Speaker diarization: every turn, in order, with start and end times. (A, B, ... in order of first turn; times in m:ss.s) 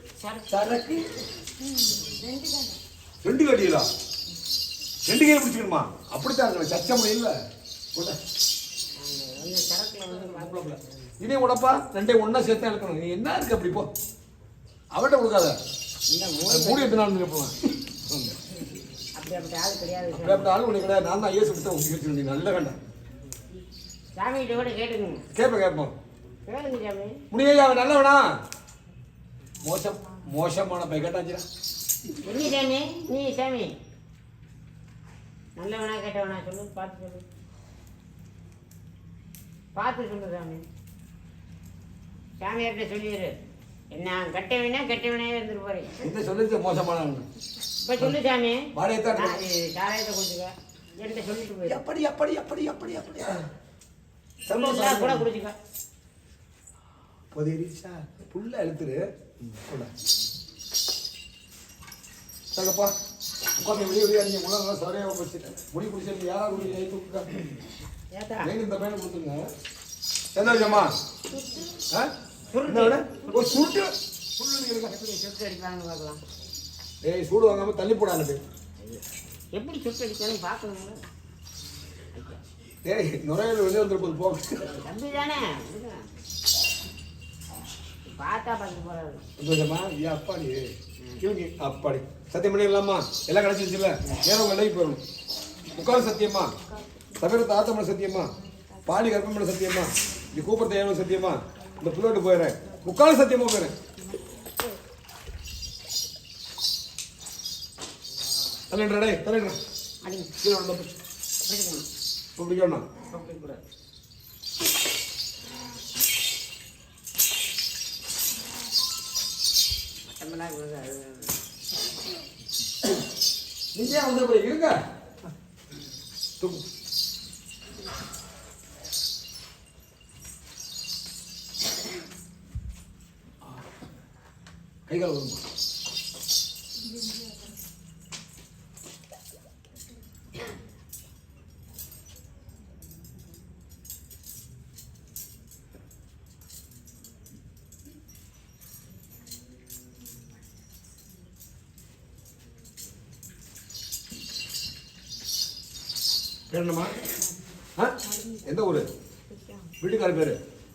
0:00.2-0:00.7 A
0:00.5-0:01.1 B
0:01.6-0:02.8 C
0:03.2-0:03.8 B
0:05.0-0:07.3 B
0:09.0-0:11.0 A
0:10.2-0:13.9 B
0:14.9-0:15.6 B
0:16.1-0:17.0 A
0:16.4-0:17.6 B
0:18.1-0:18.3 B
0:19.2-0:20.5 A
0:20.1-0:22.8 B
0:24.2-0:25.2 A
0:25.3-0:25.9 B
0:26.5-0:27.2 A
0:27.3-0:28.3 B
0:29.6-0:31.4 B
0:32.2-0:33.7 A
0:35.6-0:37.2 A
0:39.8-0:40.6 A
0:42.4-0:43.3 A
0:43.9-0:45.9 A
0:46.0-0:47.3 B
0:47.8-0:51.8 A
0:48.7-0:49.4 B
0:51.6-0:53.4 B
0:54.4-0:55.3 B
0:54.5-0:55.5 A
0:57.3-0:59.9 B
1:02.5-1:02.9 B
1:03.6-1:07.4 B
1:08.1-1:08.5 A
1:08.4-1:09.5 B
1:10.3-1:11.0 B
1:11.3-1:11.8 C
1:12.5-1:13.4 A
1:12.6-1:14.9 B
1:13.4-1:13.7 C
1:14.9-1:16.2 A
1:17.0-1:18.4 B
1:19.5-1:21.0 A
1:22.1-1:22.4 A
1:22.8-1:24.7 B
1:24.7-1:26.1 A
1:28.0-1:29.2 A
1:29.4-1:35.0 B
1:35.7-1:36.5 B
1:36.6-1:37.2 C
1:37.2-1:38.3 B
1:38.5-1:38.8 C
1:38.8-1:43.8 B
1:43.9-1:44.2 C
1:48.7-1:49.6 B
1:50.0-1:50.3 A
1:50.4-1:50.9 B
1:51.4-1:51.8 A
1:52.4-1:52.9 B
1:53.1-1:53.6 A
2:00.0-2:01.3 A
2:03.7-2:04.8 B
2:06.4-2:06.6 B
2:14.9-2:15.4 B
2:36.5-2:36.9 B
2:37.8-2:38.9 B
2:38.0-2:38.5 C
2:39.3-2:39.7 C
2:39.8-2:40.4 B